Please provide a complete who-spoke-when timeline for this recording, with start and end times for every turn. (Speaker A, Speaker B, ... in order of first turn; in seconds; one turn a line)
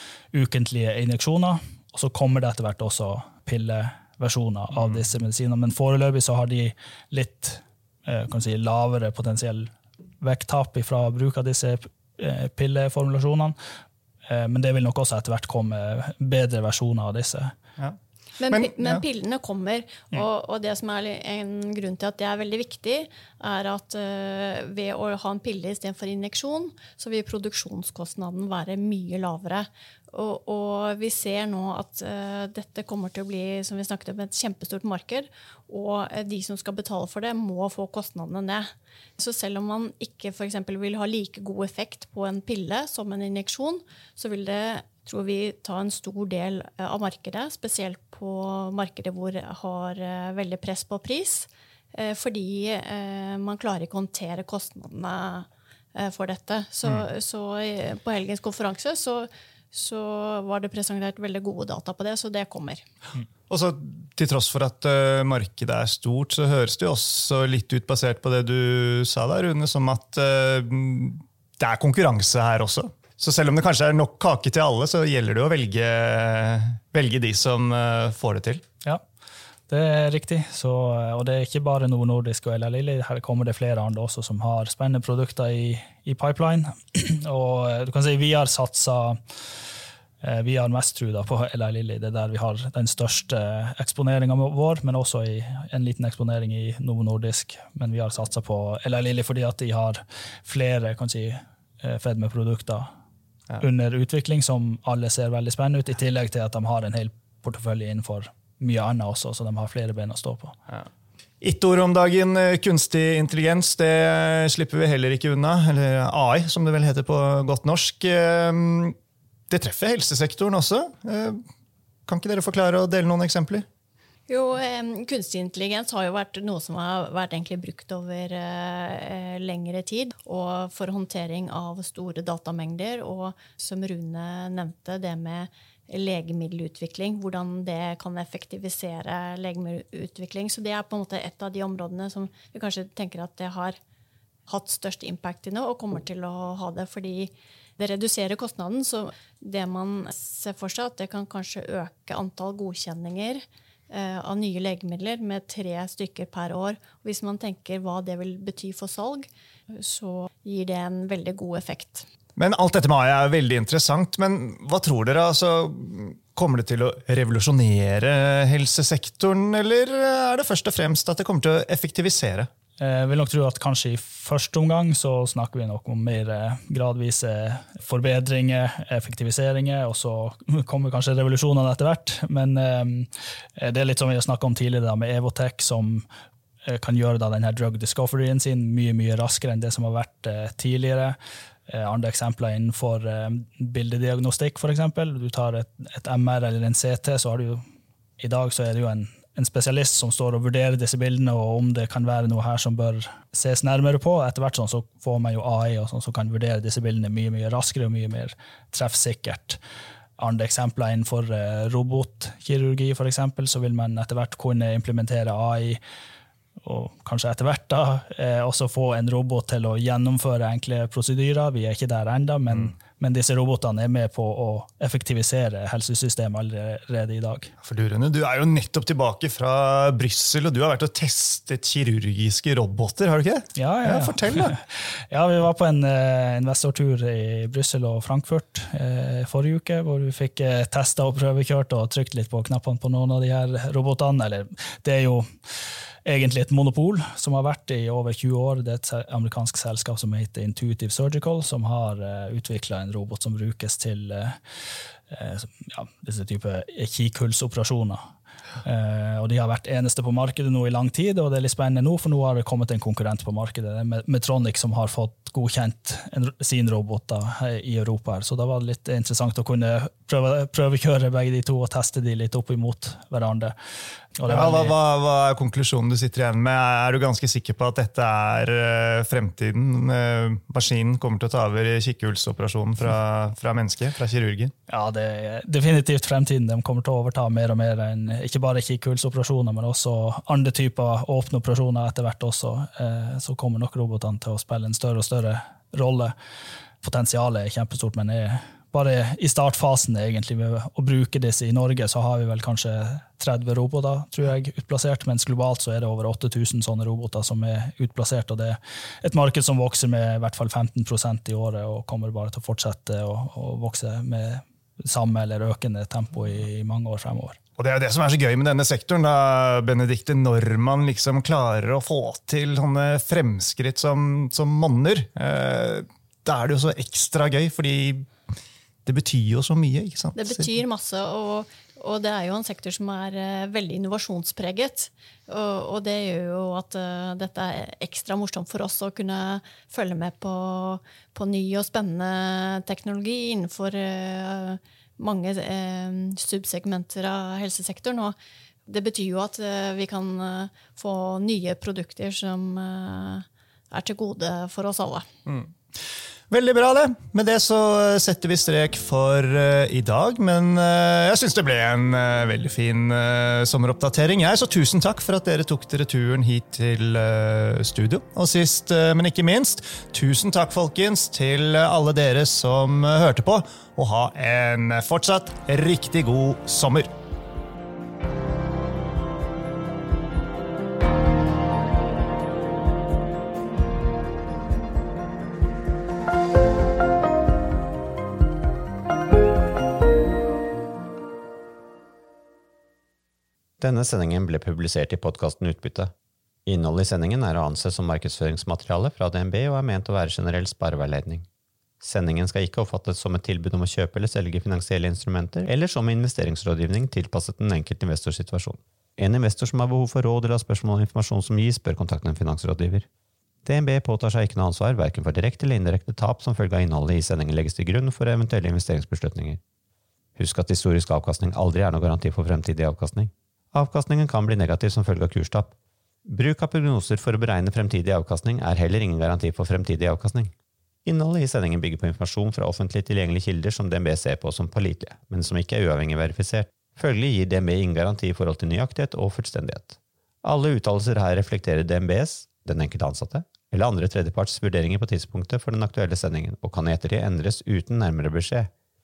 Speaker A: 0.3-13.5
Speaker A: 14.2-17.5
Speaker B: 18.4-62.8
Speaker C: 18.5-19.0
Speaker C: 63.5-78.6
Speaker A: 79.7-89.2
Speaker A: 90.2-102.9
Speaker A: 103.6-110.6
Speaker C: 111.4-119.0
Speaker C: 119.5-121.4
Speaker C: 122.1-123.7
Speaker B: 124.3-143.8
Speaker B: 144.5-162.1
Speaker C: 162.4-172.5
Speaker A: 172.8-186.1
Speaker A: 186.6-191.2
Speaker A: 191.7-197.6
Speaker A: 198.2-209.6
Speaker A: 210.2-215.8
Speaker A: 216.6-227.5
Speaker C: 227.6-234.5
Speaker A: 233.6-245.3
Speaker A: 246.0-254.4
Speaker A: 255.1-258.0
Speaker A: 258.6-273.5
Speaker A: 274.1-274.7
Speaker C: 274.3-284.5
Speaker A: 284.7-296.1
Speaker A: 296.8-317.4
Speaker C: 317.6-328.1
Speaker C: 328.8-330.5
Speaker B: 330.1-348.1
Speaker B: 348.7-355.1
Speaker C: 355.2-355.5
Speaker C: 356.3-376.9
Speaker D: 393.6-395.9
Speaker D: 396.4-401.2
Speaker D: 401.8-412.9
Speaker D: 413.4-419.4
Speaker D: 420.2-430.3
Speaker D: 430.8-448.5